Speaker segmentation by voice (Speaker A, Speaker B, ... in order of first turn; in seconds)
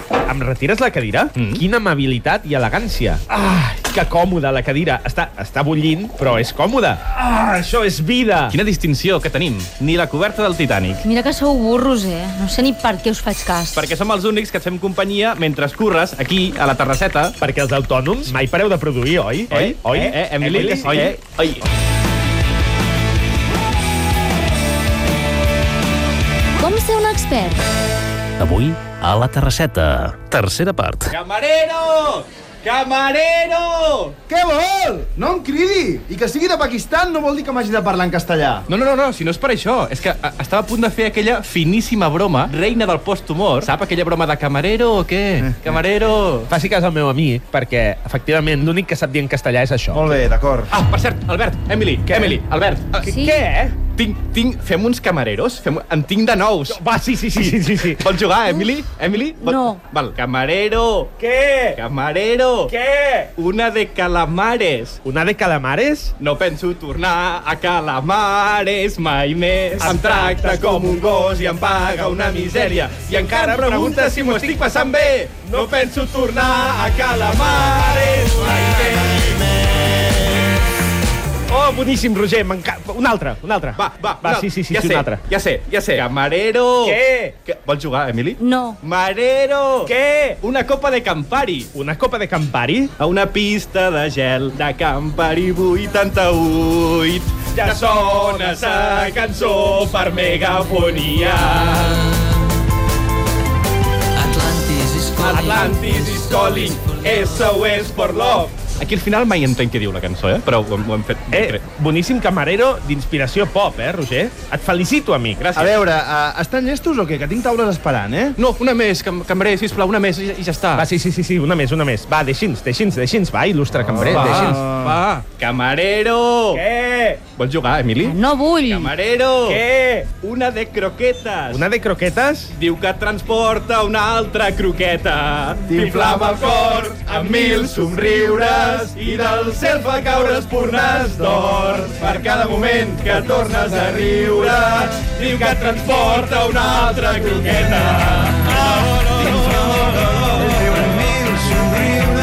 Speaker A: 0.3-8.6, 17.4-21.2, 46.5-50.2, 52.1-52.4, 53.0-53.8, 56.7-58.1, 61.2-61.8, 62.7-63.3, 65.0-66.1, 69.8-71.0, 72.1-74.9, 81.5-85.2, 86.8-87.3, 89.9-90.4, 91.8-92.9, 97.6-99.2, 105.3-105.8, 111.3-115.5, 120.8-124.6, 126.5-127.2, 129.4-130.1, 131.5-132.5, 148.7-149.7
Speaker B: 1.4-1.6, 8.5-11.0, 13.7-17.4, 19.5-21.6, 31.1-34.2, 38.7-46.5, 50.7-53.0, 53.9-61.1, 61.7-62.7, 63.4-65.0, 66.2-79.4, 83.8-91.7, 93.0-102.2, 105.1-111.6, 115.4-115.8, 118.4-120.9, 123.9-126.6, 127.3-131.7, 132.5-150.9
Speaker C: 11.0-13.9, 26.6-27.6, 53.0-53.4, 59.4-59.8, 88.4-88.8, 104.2-105.1, 128.0-128.9
Speaker D: 28.4-31.1
Speaker E: 34.3-38.6, 49.9-50.7, 115.6-118.4, 123.9-125.0, 135.7-136.5, 150.4-152.1